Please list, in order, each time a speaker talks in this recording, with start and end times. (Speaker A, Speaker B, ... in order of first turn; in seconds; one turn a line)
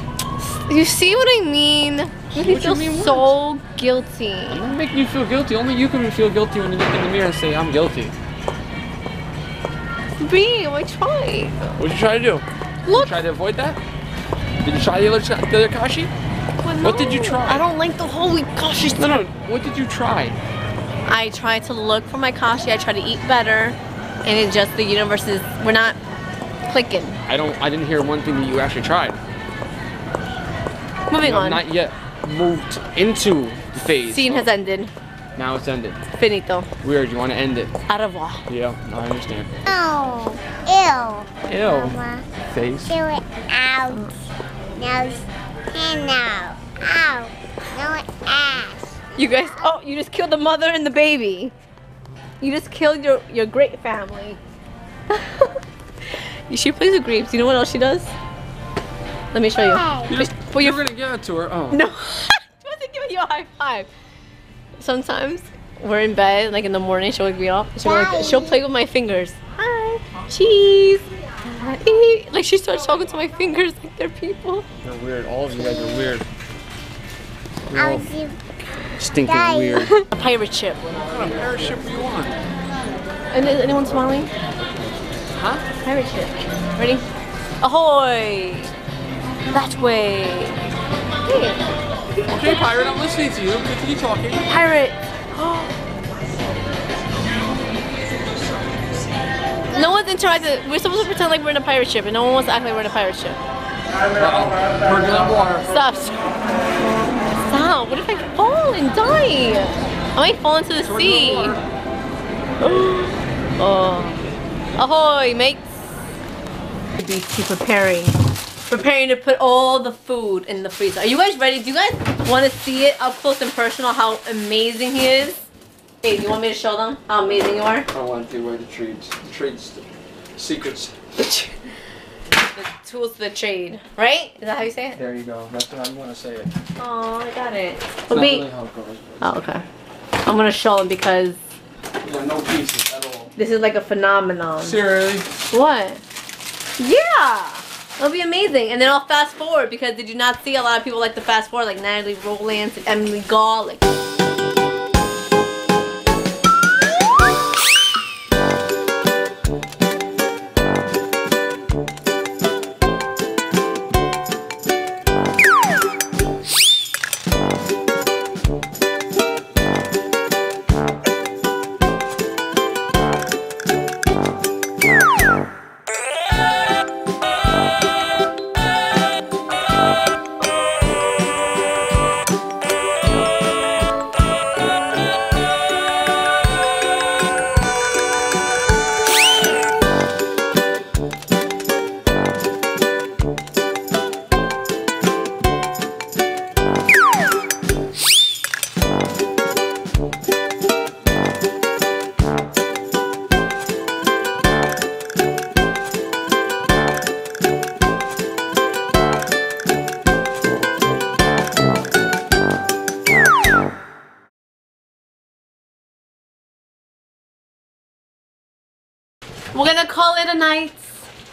Speaker A: 0.4-4.7
Speaker B: 2.3-3.3
Speaker B: 4.5-8.1
Speaker A: 10.2-11.9
Speaker B: 11.8-13.8
Speaker A: 12.8-13.2
Speaker B: 14.6-16.1
Speaker A: 16.6-19.2
Speaker B: 16.8-17.7
Speaker B: 18.9-20.4
Speaker A: 21.1-26.0
Speaker A: 26.7-27.2
Speaker B: 27.3-29.2
Speaker A: 31.1-31.6
Speaker B: 31.2-34.5
Speaker A: 34.1-34.9
Speaker B: 35.3-36.0
Speaker A: 36.1-36.7
Speaker B: 36.8-37.7
Speaker A: 37.9-38.4
Speaker B: 38.5-39.5
Speaker C: 39.6-42.2
Speaker B: 41.5-43.0
Speaker C: 42.9-44.1
Speaker C: 44.8-48.9
Speaker A: 49.1-51.5
Speaker A: 52.4-54.4
Speaker A: 55.1-58.1
Speaker A: 59.3-60.8
Speaker C: 59.5-60.1
Speaker B: 60.1-61.8
Speaker A: 61.7-63.9
Speaker A: 64.8-74.7
Speaker C: 67.8-68.6
Speaker B: 74.8-76.2
Speaker B: 77.7-78.1
Speaker C: 77.7-78.4
Speaker B: 79.0-79.9
Speaker C: 79.2-79.9
Speaker A: 79.9-81.2
Speaker B: 81.1-82.4
Speaker A: 83.3-84.3
Speaker B: 83.8-85.6
Speaker A: 85.7-87.0
Speaker A: 87.6-88.7
Speaker A: 89.5-90.6
Speaker A: 91.2-91.6
Speaker B: 92.1-94.5
Speaker A: 94.5-95.7
Speaker A: 99.7-103.4
Speaker B: 104.1-105.8
Speaker A: 105.7-106.2
Speaker A: 107.4-111.5
Speaker B: 110.8-111.6
Speaker A: 112.6-114.2
Speaker A: 114.8-115.8
Speaker A: 117.0-125.5
Speaker A: 126.0-127.9
Speaker B: 127.9-131.0
Speaker A: 131.2-131.6
Speaker A: 132.3-135.0
Speaker B: 134.9-136.5
Speaker A: 136.8-138.5
Speaker B: 138.1-139.4
Speaker A: 139.2-139.6
Speaker A: 140.2-141.4
Speaker B: 142.0-143.3
Speaker A: 143.3-144.8
Speaker B: 144.6-145.3
Speaker A: 145.5-146.0
Speaker A: 146.8-153.9
Speaker A: 219.5-221.0